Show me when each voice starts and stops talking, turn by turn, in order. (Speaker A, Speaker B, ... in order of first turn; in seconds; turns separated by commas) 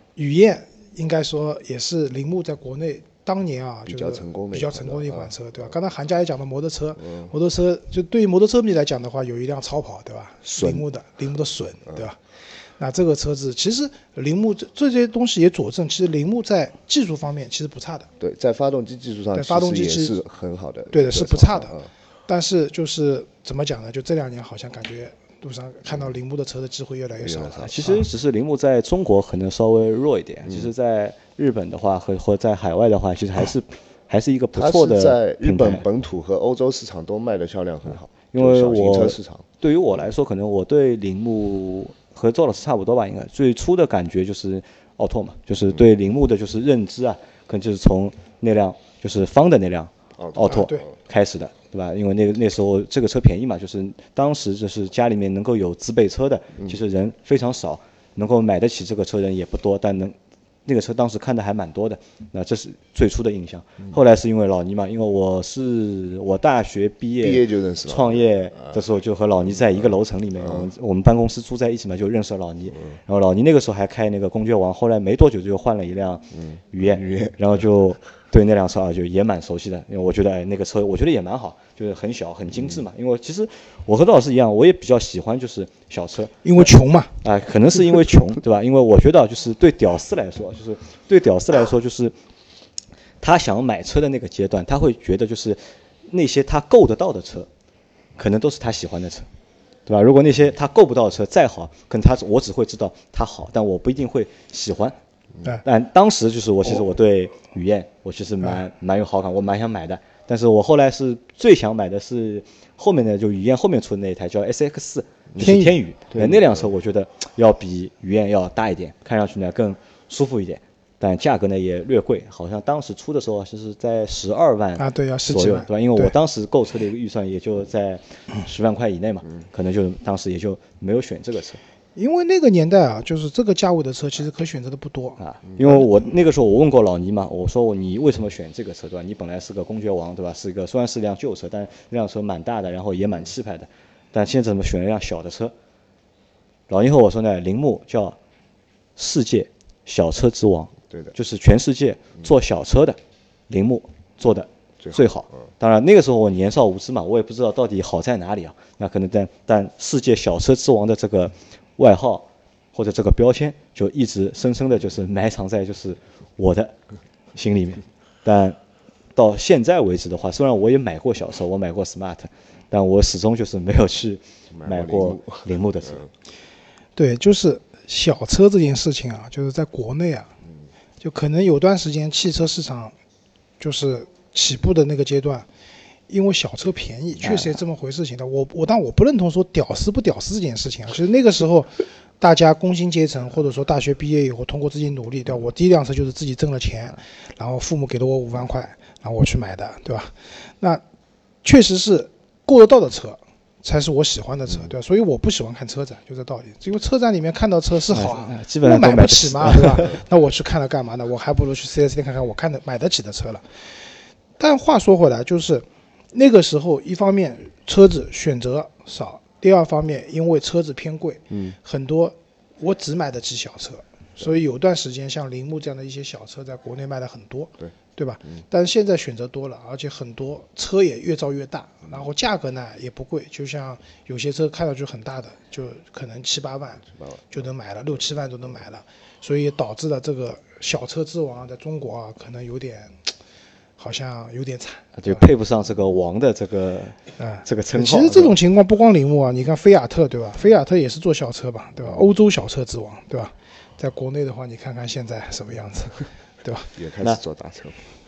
Speaker A: 0.1-12.2, Speaker B: 3.9-5.3, Speaker B: 7.0-7.3, Speaker B: 10.4-10.8, Speaker A: 12.8-18.1, Speaker B: 18.2-21.9, Speaker A: 19.3-20.1, Speaker A: 20.9-28.0, Speaker B: 27.2-27.9, Speaker C: 27.6-35.8, Speaker B: 30.4-30.7, Speaker B: 34.5-39.4, Speaker C: 38.3-86.7, Speaker B: 50.2-50.9, Speaker A: 50.5-50.8, Speaker B: 67.2-68.8, Speaker B: 69.5-70.7, Speaker B: 76.3-77.4, Speaker A: 86.4-87.1, Speaker C: 87.2-92.1, Speaker C: 93.2-97.5, Speaker C: 98.2-99.3, Speaker C: 99.9-105.0, Speaker C: 105.6-131.6, Speaker A: 115.4-115.8, Speaker B: 116.1-116.7, Speaker A: 124.8-126.1, Speaker A: 131.9-135.2, Speaker C: 135.2-145.5, Speaker C: 146.7-148.2, Speaker C: 149.0-153.0, Speaker B: 150.9-151.1, Speaker C: 153.5-166.7, Speaker C: 167.3-168.6, Speaker C: 169.1-176.0, Speaker B: 174.5-176.0, Speaker A: 176.9-180.3, Speaker A: 181.0-182.9, Speaker A: 183.6-185.5, Speaker A: 186.1-200.8, Speaker A: 201.4-213.4, Speaker C: 207.9-209.9, Speaker A: 214.4-243.0, Speaker B: 221.3-221.6, Speaker B: 236.9-237.2, Speaker A: 243.8-245.3, Speaker C: 245.0-248.3, Speaker A: 247.2-256.7, Speaker B: 256.8-257.8